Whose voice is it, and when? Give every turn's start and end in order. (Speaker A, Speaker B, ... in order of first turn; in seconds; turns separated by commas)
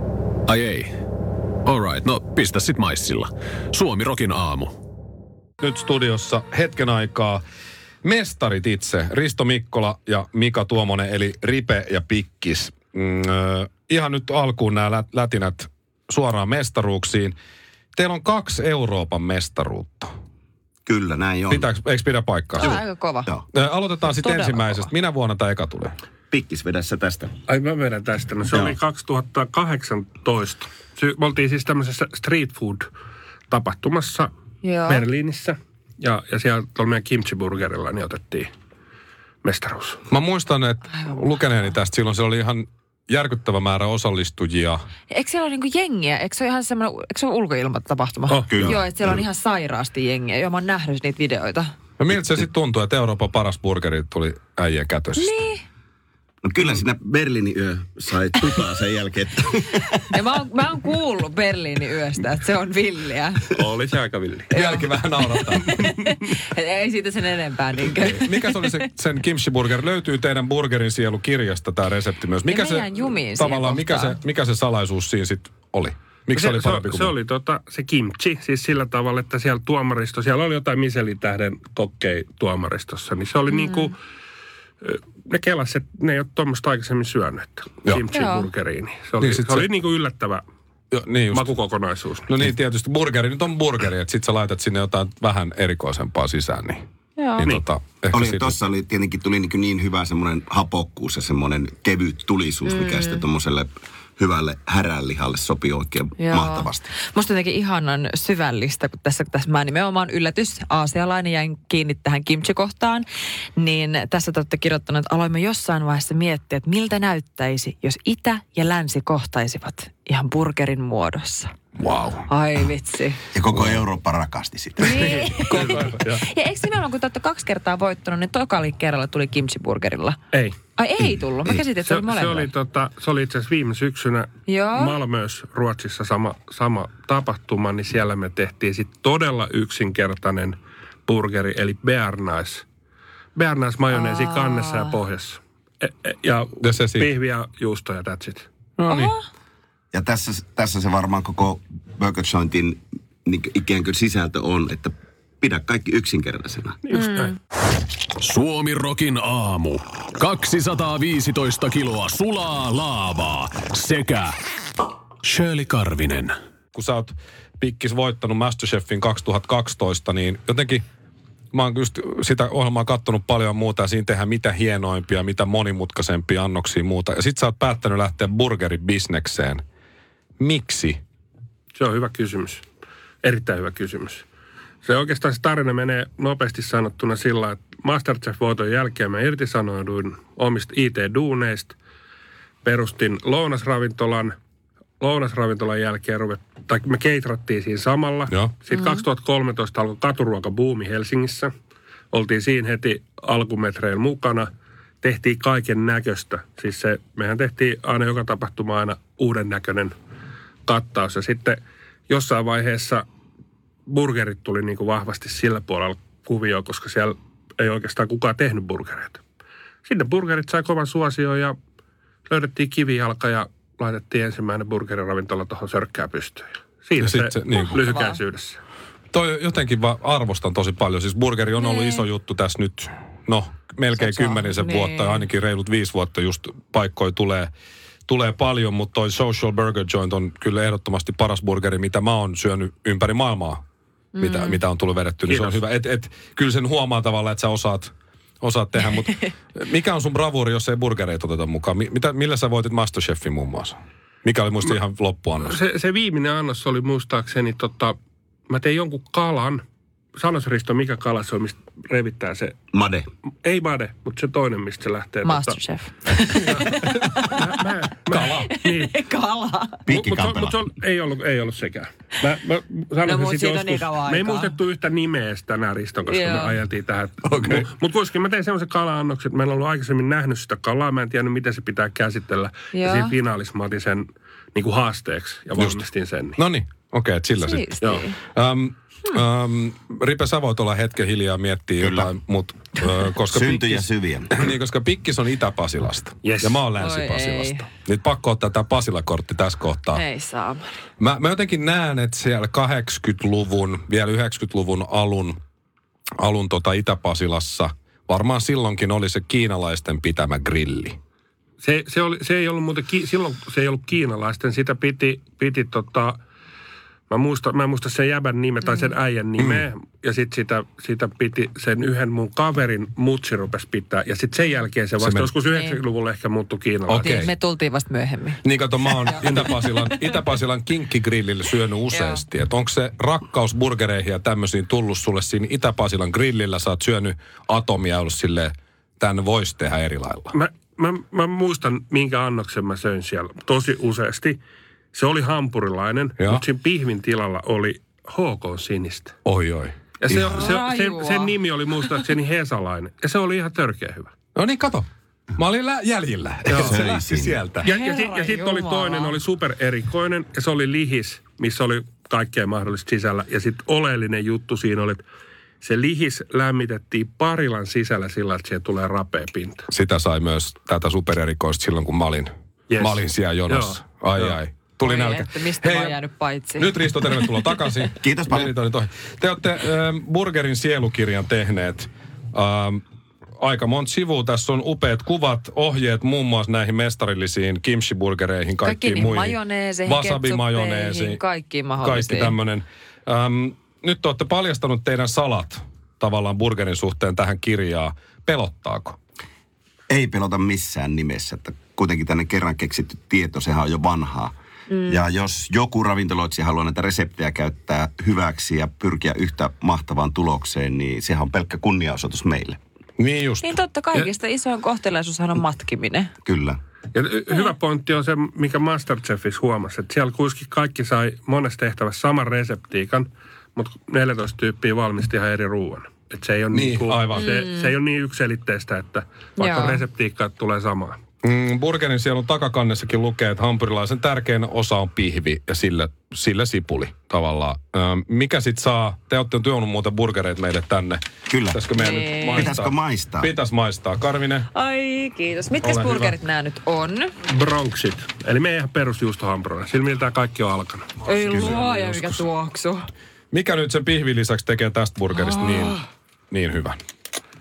Speaker A: 0.5-0.9, Speaker A: 1.7-4.7, Speaker B: 5.6-7.4, Speaker B: 8.0-17.4, Speaker B: 17.9-20.1, Speaker C: 20.9-21.7, Speaker B: 21.5-22.8, Speaker D: 22.6-23.3, Speaker B: 23.5-26.0, Speaker D: 24.1-24.9, Speaker C: 26.3-27.3, Speaker E: 27.5-32.9, Speaker E: 33.5-34.3, Speaker D: 34.6-35.0, Speaker E: 34.9-38.5, Speaker E: 39.4-40.0, Speaker B: 40.1-44.8, Speaker D: 40.9-41.4, Speaker D: 45.1-51.7, Speaker E: 48.3-48.7, Speaker C: 48.5-49.2, Speaker B: 52.0-55.3, Speaker D: 55.2-55.6, Speaker C: 56.4-60.0, Speaker D: 60.1-63.5, Speaker E: 63.5-64.6, Speaker B: 64.5-65.7, Speaker D: 64.5-68.8, Speaker E: 65.5-65.9, Speaker B: 68.0-77.1, Speaker D: 72.5-74.2, Speaker E: 76.3-84.0, Speaker D: 83.5-83.9, Speaker E: 84.8-90.4, Speaker D: 88.1-88.5, Speaker B: 89.2-89.7, Speaker B: 90.9-91.5, Speaker E: 91.3-92.5, Speaker B: 92.3-96.8, Speaker D: 97.2-97.5, Speaker B: 97.4-98.5, Speaker C: 98.1-106.9, Speaker D: 102.7-103.2, Speaker D: 106.2-113.1, Speaker D: 113.6-121.5, Speaker B: 121.8-122.3, Speaker D: 122.3-123.2, Speaker C: 123.3-125.1, Speaker D: 124.8-130.2, Speaker E: 124.8-126.2, Speaker B: 125.5-125.8, Speaker E: 130.3-130.6, Speaker D: 130.8-132.5, Speaker E: 131.8-142.7, Speaker D: 134.5-135.0, Speaker E: 143.3-148.5, Speaker D: 143.9-144.9, Speaker B: 146.6-147.1, Speaker B: 148.8-149.1, Speaker D: 148.9-149.2, Speaker C: 149.9-156.8, Speaker E: 156.8-157.4, Speaker D: 156.9-157.3, Speaker A: 158.2-164.3, Speaker A: 165.2-166.3, Speaker B: 166.7-170.8, Speaker B: 171.5-179.6, Speaker B: 180.4-181.0, Speaker E: 181.7-182.7, Speaker E: 183.2-184.2, Speaker E: 184.8-191.8, Speaker E: 192.6-194.4, Speaker E: 195.0-201.5, Speaker B: 198.3-198.5, Speaker D: 198.7-199.0, Speaker E: 202.1-204.5, Speaker E: 205.0-209.9, Speaker E: 210.7-213.1, Speaker E: 213.9-219.2, Speaker E: 219.8-221.6, Speaker E: 222.3-228.6, Speaker B: 227.0-227.8, Speaker D: 227.5-228.2, Speaker B: 229.1-237.5, Speaker D: 231.6-232.1, Speaker D: 233.9-235.3, Speaker B: 238.1-243.6, Speaker D: 244.2-244.6, Speaker B: 244.2-255.6, Speaker E: 245.3-245.6, Speaker E: 255.4-258.0, Speaker E: 258.5-259.6, Speaker E: 260.1-262.6, Speaker C: 262.7-263.1, Speaker E: 263.4-265.6, Speaker D: 265.2-267.5, Speaker E: 266.3-268.9, Speaker B: 268.1-268.6, Speaker D: 268.2-269.9, Speaker C: 269.9-270.6, Speaker E: 269.9-286.4, Speaker D: 273.0-274.6, Speaker D: 276.1-276.6, Speaker B: 277.4-277.7, Speaker D: 282.7-283.1, Speaker B: 285.6-285.8, Speaker B: 286.4-300.0, Speaker D: 287.4-288.2, Speaker C: 291.8-292.1, Speaker C: 293.3-294.4, Speaker E: 296.2-296.6, Speaker D: 296.8-297.7, Speaker D: 299.9-300.7, Speaker B: 301.0-305.4, Speaker B: 306.2-311.0, Speaker E: 311.6-316.2, Speaker E: 317.1-327.3, Speaker D: 318.6-318.9, Speaker B: 319.4-319.7, Speaker B: 325.0-325.3, Speaker D: 325.5-325.8, Speaker B: 326.9-327.3, Speaker D: 327.0-329.9, Speaker B: 328.4-340.3, Speaker D: 331.9-332.2, Speaker E: 340.3-344.4, Speaker E: 344.9-349.1, Speaker B: 349.2-349.8, Speaker E: 350.0-354.1, Speaker C: 350.1-350.4, Speaker D: 350.3-351.3, Speaker B: 354.4-357.7, Speaker E: 356.5-356.8, Speaker C: 356.5-357.4, Speaker E: 357.6-365.0, Speaker D: 357.6-359.2, Speaker E: 365.6-369.7, Speaker B: 369.7-376.0, Speaker E: 372.7-374.4, Speaker D: 374.8-377.5, Speaker B: 376.6-382.8, Speaker C: 378.0-378.5, Speaker B: 383.4-391.2, Speaker D: 388.6-392.4, Speaker B: 391.8-399.0, Speaker C: 399.9-404.3, Speaker D: 404.7-405.0, Speaker C: 404.9-412.6, Speaker B: 413.0-413.6, Speaker D: 413.4-416.1, Speaker C: 416.2-416.6, Speaker E: 416.9-431.0, Speaker B: 426.5-427.3, Speaker D: 427.1-427.7, Speaker D: 429.4-429.8, Speaker B: 431.2-444.5, Speaker C: 441.3-441.6, Speaker D: 441.7-442.6, Speaker C: 442.4-443.3, Speaker D: 444.5-447.1, Speaker B: 445.6-446.2, Speaker E: 447.2-451.1, Speaker D: 451.0-452.9, Speaker B: 451.2-452.2, Speaker C: 451.3-451.6, Speaker B: 453.3-456.8, Speaker D: 455.1-455.8